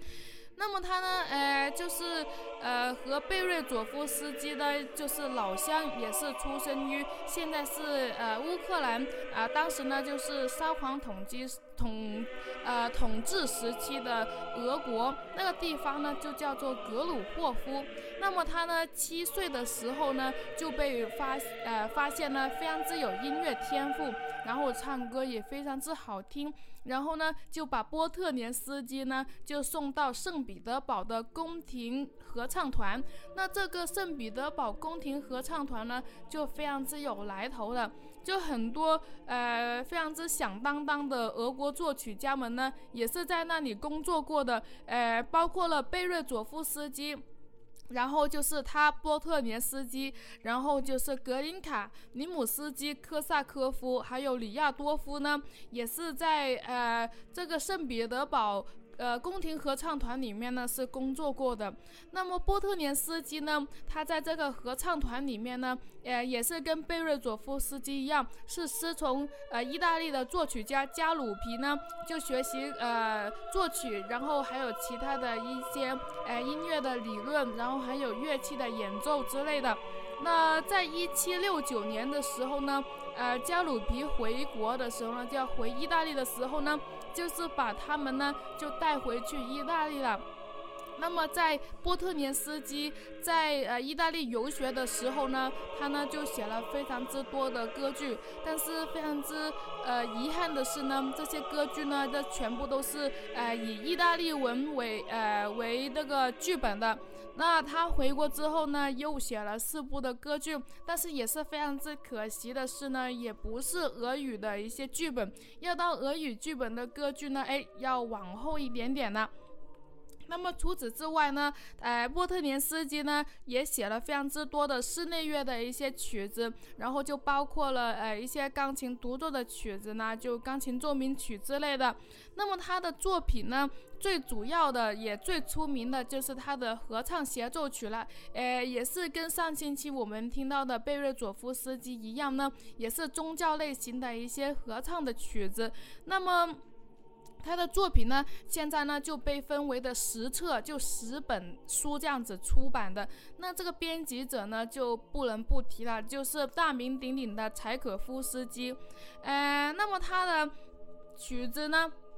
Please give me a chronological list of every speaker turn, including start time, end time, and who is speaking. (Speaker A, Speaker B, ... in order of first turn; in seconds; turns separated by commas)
Speaker A: 0.6-47.2, Speaker A: 47.9-90.2, Speaker A: 91.0-119.3, Speaker A: 120.3-146.6, Speaker A: 147.4-160.5, Speaker A: 161.2-161.9